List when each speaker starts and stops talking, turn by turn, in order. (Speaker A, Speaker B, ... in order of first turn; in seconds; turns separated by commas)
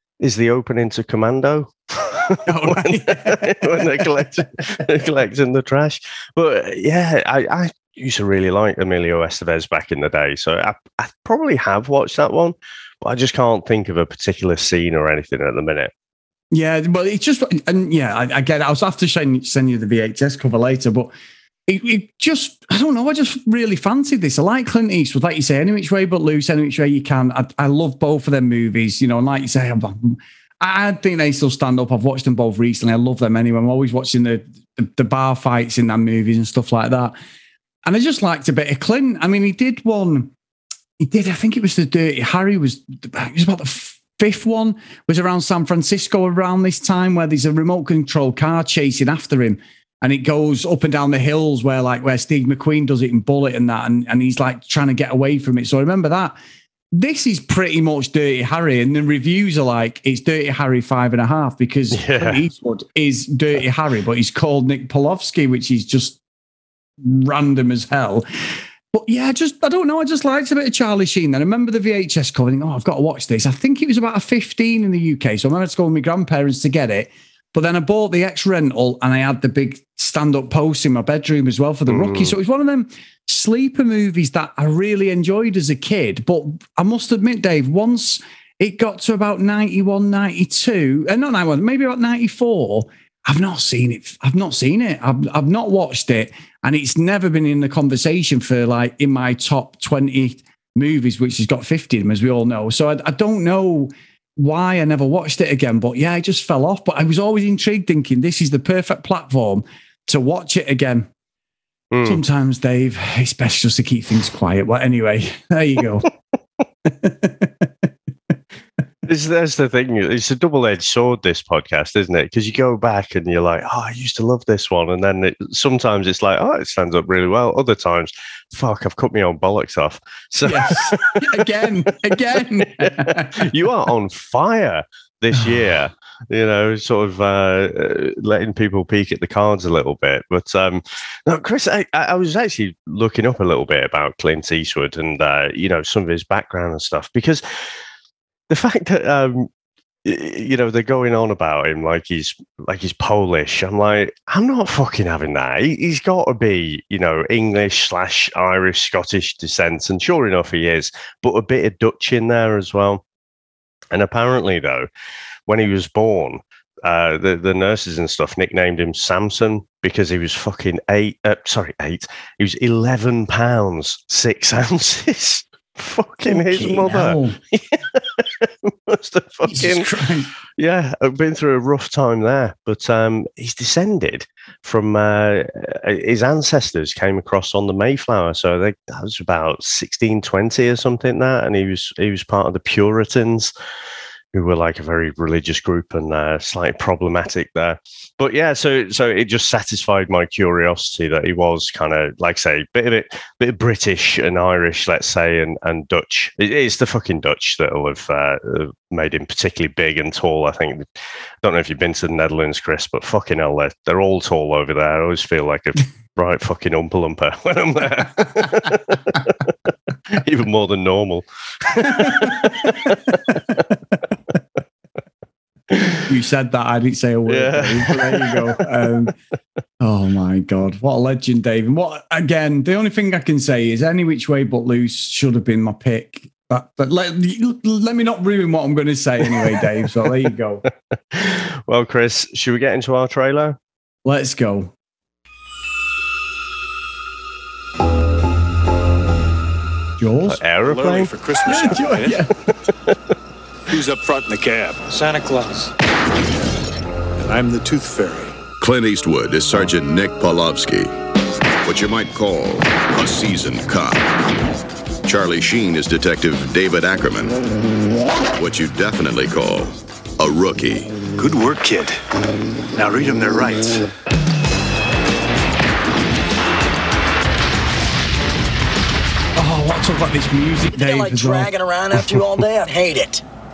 Speaker A: 0.2-15.9, Speaker B: 2.5-4.2, Speaker B: 16.5-21.1, Speaker B: 21.7-37.1, Speaker B: 37.9-40.3, Speaker B: 41.0-56.4, Speaker B: 56.9-66.2, Speaker A: 61.9-62.4, Speaker B: 67.0-111.1, Speaker A: 81.9-82.3, Speaker A: 111.9-112.2, Speaker B: 112.0-116.1, Speaker B: 116.8-117.9, Speaker A: 119.0-131.5, Speaker B: 130.4-133.5, Speaker A: 132.6-147.4, Speaker B: 135.3-135.7, Speaker A: 148.5-149.5, Speaker A: 150.0-163.0, Speaker A: 163.9-164.9, Speaker A: 165.5-179.9, Speaker B: 176.2-177.4, Speaker B: 179.4-180.3, Speaker A: 180.6-193.5, Speaker A: 194.3-210.8, Speaker A: 211.4-219.4, Speaker A: 220.1-223.4, Speaker B: 222.0-223.3, Speaker A: 225.7-226.0, Speaker B: 226.1-229.1, Speaker A: 227.3-229.1, Speaker B: 229.8-240.6, Speaker A: 241.1-243.6, Speaker B: 244.0-244.7, Speaker B: 250.0-250.4, Speaker A: 250.3-251.1, Speaker C: 250.6-252.2, Speaker B: 251.4-252.3, Speaker C: 253.7-255.7, Speaker C: 257.2-258.4, Speaker D: 258.6-260.9, Speaker D: 261.6-264.0, Speaker D: 265.0-267.4, Speaker D: 268.3-270.9, Speaker C: 271.1-272.0, Speaker C: 272.7-273.8, Speaker B: 279.4-282.2, Speaker E: 280.7-283.2